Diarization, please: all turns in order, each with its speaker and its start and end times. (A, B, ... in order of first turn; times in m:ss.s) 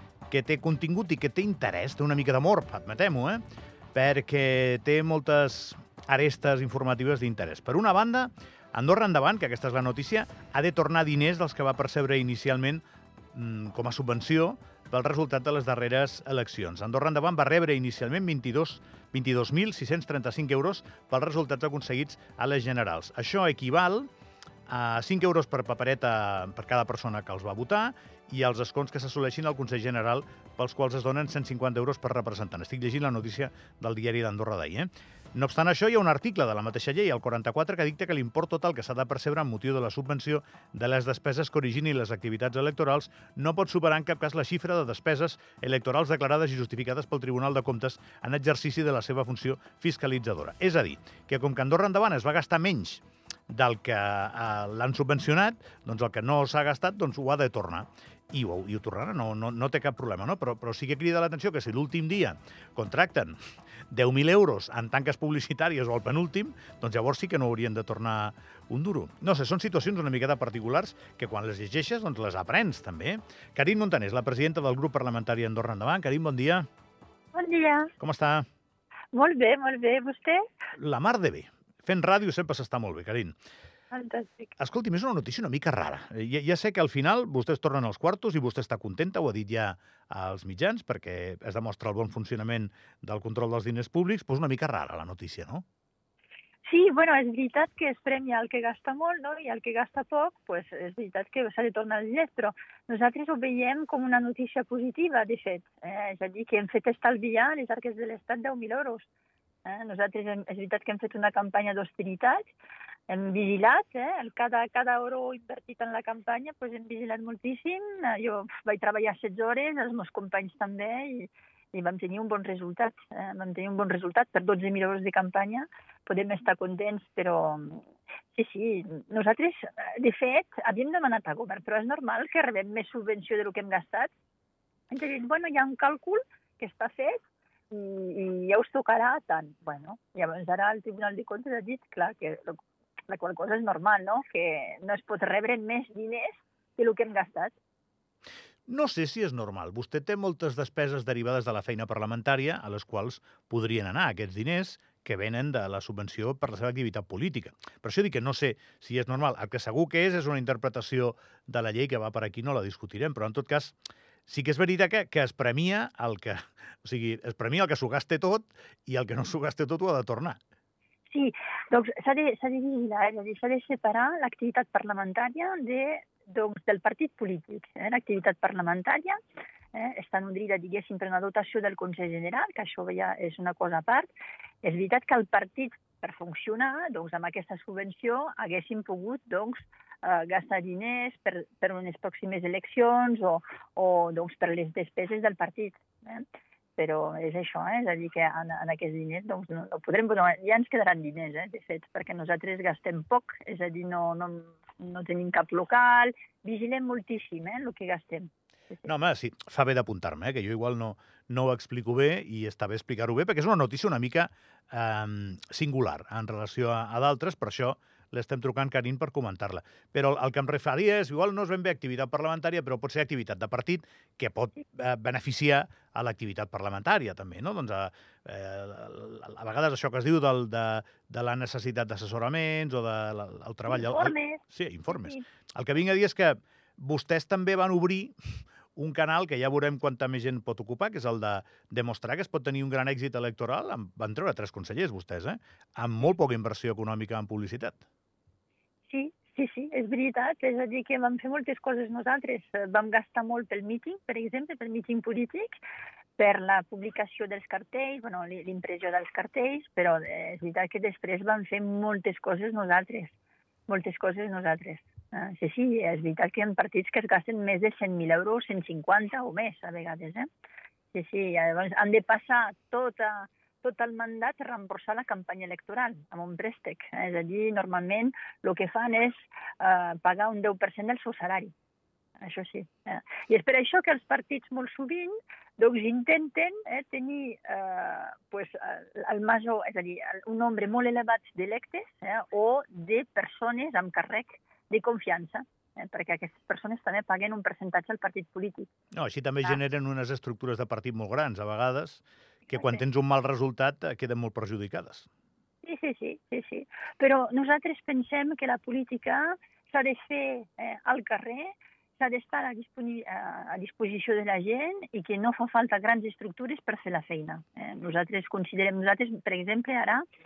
0:00.3-0:03.4 A
0:03.9-0:12.8 A
0:13.3-0:24.1 A
0:24.7-1:03.4 A
1:03.9-1:16.7 A
1:17.3-1:17.9 B
1:18.0-1:18.5 A
1:19.1-1:20.4 B
1:20.8-1:23.3 A
1:23.9-1:24.5 B
1:24.6-1:35.6 A
1:36.6-1:49.1 B
1:49.6-1:52.5 B
1:53.1-2:14.1 B
2:14.9-2:27.6 B
2:28.7-2:43.8 A
2:44.3-2:50.4 A
2:51.1-2:59.2 B
2:59.7-3:04.1 B
3:04.6-3:16.3 B
3:16.8-3:28.9 B
3:28.8-3:58.2 A
3:53.7-3:55.2 B
3:58.8-4:07.8 A
4:08.9-4:15.6 B
4:16.2-4:23.2 B
4:23.7-4:30.3 B
4:30.9-4:41.5 B
4:42.2-4:58.7 B
4:58.9-5:05.1 A
5:02.5-5:02.8 B
5:05.6-5:20.0 B